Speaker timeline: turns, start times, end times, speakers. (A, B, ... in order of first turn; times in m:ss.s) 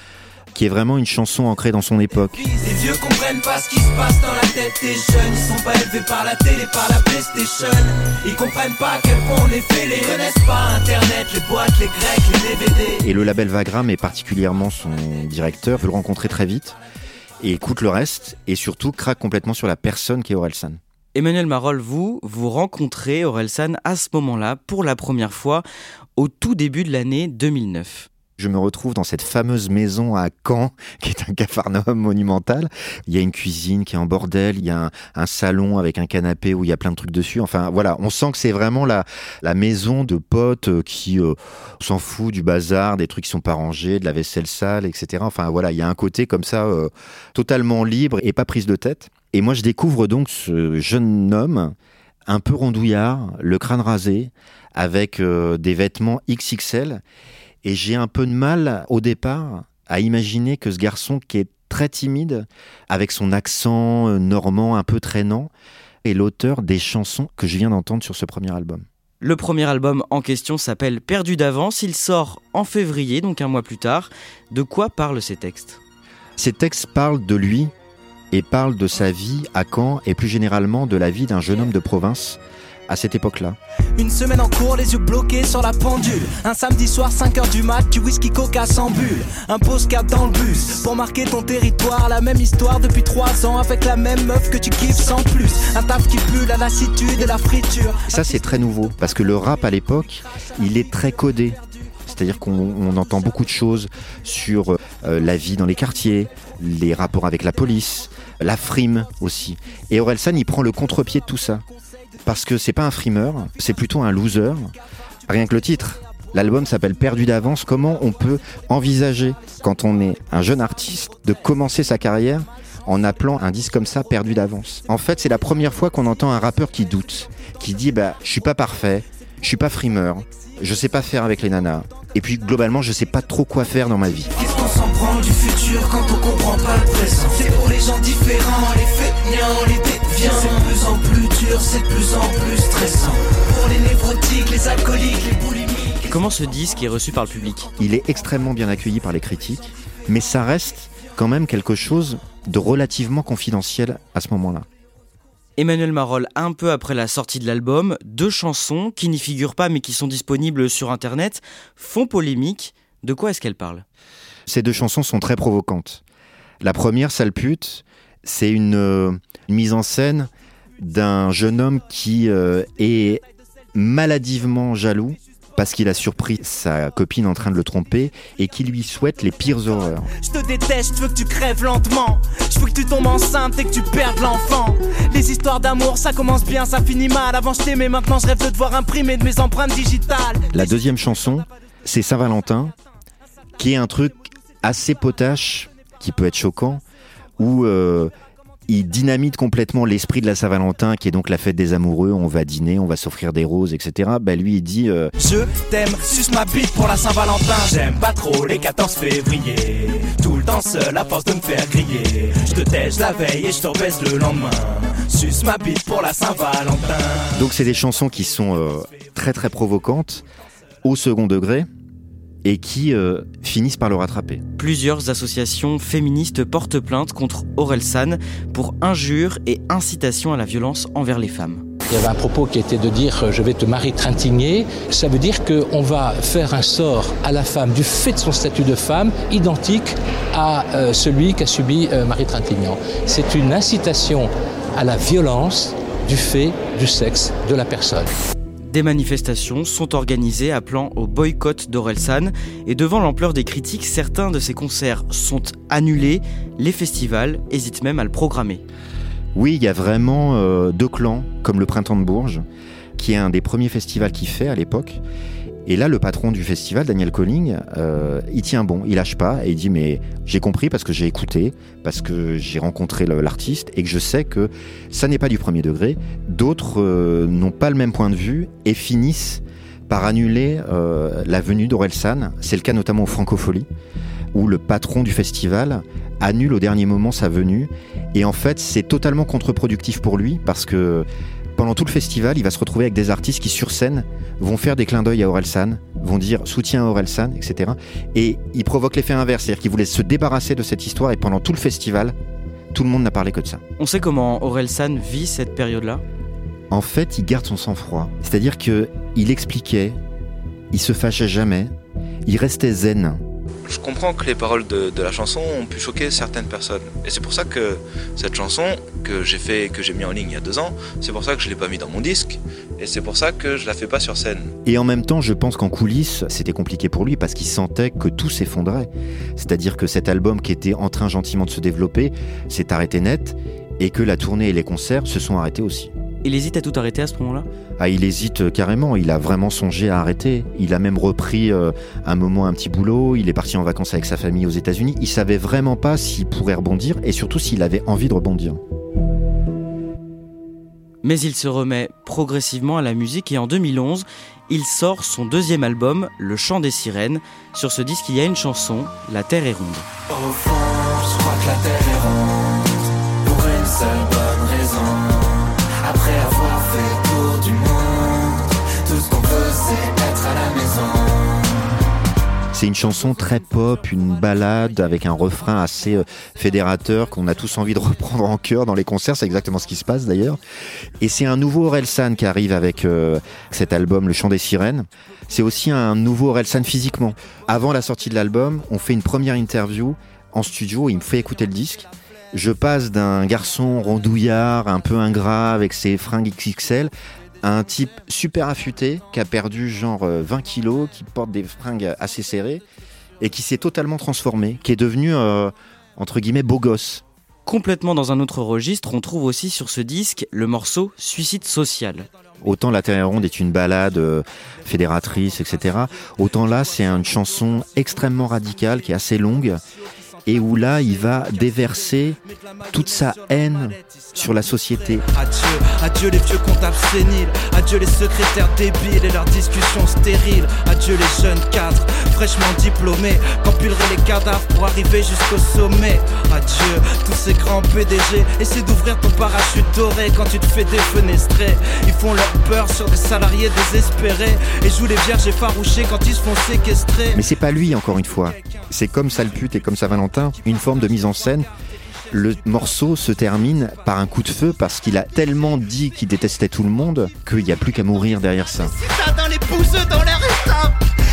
0:00.5-0:02.4 A
0:02.4-0:13.0 B
0:13.0-0:16.8 A
0:17.4-0:20.8 A
0:21.1-0:25.6 C
0:26.2-0:28.1 C
0:28.4-0:51.7 A
0:52.3-0:57.0 A
0:57.6-1:05.5 A
1:06.0-1:08.8 A
1:09.2-1:15.8 C
1:16.4-1:17.7 A
1:18.3-1:23.6 A
1:24.0-1:38.1 B
1:38.1-1:51.6 A
1:52.2-1:54.7 A
1:55.3-2:14.3 A
2:14.4-2:26.2 B
2:26.0-2:27.7 C
2:27.8-2:34.7 A
2:35.6-2:43.8 C
2:44.5-2:46.0 A
2:46.6-2:53.2 A
2:53.7-3:00.1 A
3:00.2-3:10.6 B
3:10.5-3:12.7 A
3:13.6-3:16.8 A
3:17.4-3:18.1 A
3:18.7-3:25.1 A
3:25.2-3:37.4 B
3:37.3-3:40.2 A
3:40.8-3:41.7 A
3:42.4-3:44.4 A
3:44.6-3:51.6 C
3:51.9-4:08.1 D
4:08.7-4:18.6 C
4:19.3-4:22.4 A
4:23.0-4:25.0 A
4:25.6-4:43.7 A
4:44.3-5:02.2 A
5:02.7-5:03.6 A
5:03.8-5:06.0 C
5:06.7-5:10.0 A
5:10.7-5:11.7 A
5:12.2-5:13.2 A
5:13.6-5:24.5 E
5:24.6-5:35.9 A
5:36.2-5:37.5 C
5:37.8-5:48.6 A
5:51.0-5:59.8 C
6:12.5-6:20.4 A
6:21.0-6:42.6 A
6:43.2-6:47.0 A
6:47.4-6:52.1 C
6:52.4-6:59.6 A
7:00.2-7:02.2 A
7:02.7-7:05.0 A
7:05.1-7:27.2 B
7:27.1-7:31.5 A
7:32.1-7:38.7 A
7:38.7-7:40.7 B